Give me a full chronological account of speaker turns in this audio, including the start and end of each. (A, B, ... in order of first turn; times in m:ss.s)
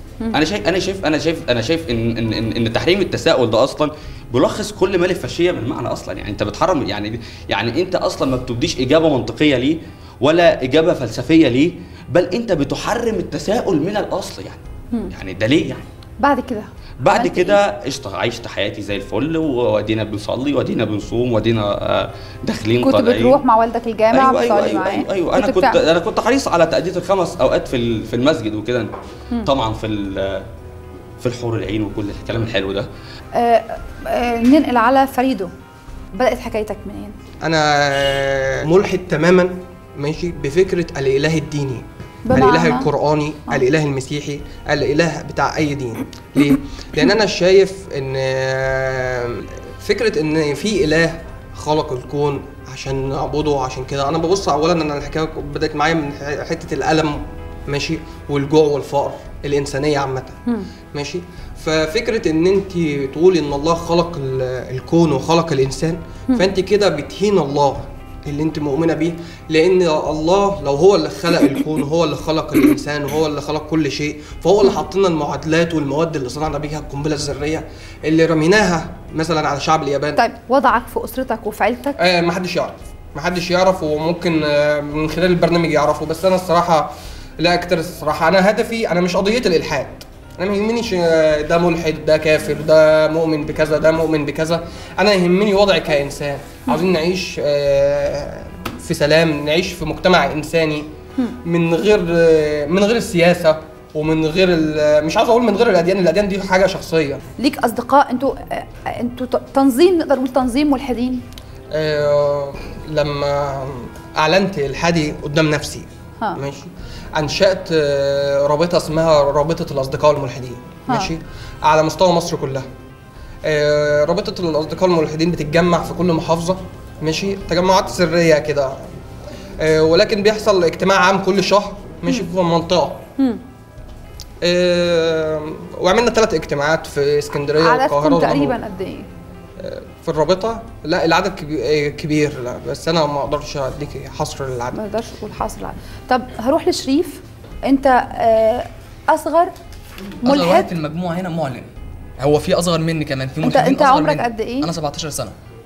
0:00.3-0:15.8 A
0:16.2-0:17.6 B
0:17.0-0:23.4 A
0:22.8-0:25.8 B
0:24.1-0:28.9 A
0:29.4-0:30.4 A
0:31.2-0:32.9 A
0:33.3-0:35.5 B
0:36.1-0:37.1 B
0:37.4-1:00.4 C
0:42.3-0:42.9 B
1:00.9-1:20.2 C
1:20.1-1:22.0 B
1:22.0-1:40.9 C
1:41.4-1:47.2 C
1:47.4-1:51.2 B
1:51.7-2:02.7 C
2:00.9-2:01.1 B
2:03.4-2:08.9 C
2:09.6-2:13.0 C
2:13.2-2:13.4 B
2:14.4-2:18.6 C
2:17.5-2:19.1 B
2:19.6-2:24.8 C
2:24.7-2:29.5 B
2:30.2-2:30.7 B
2:30.2-2:31.7 D
2:32.2-2:35.3 D
2:33.4-2:34.7 B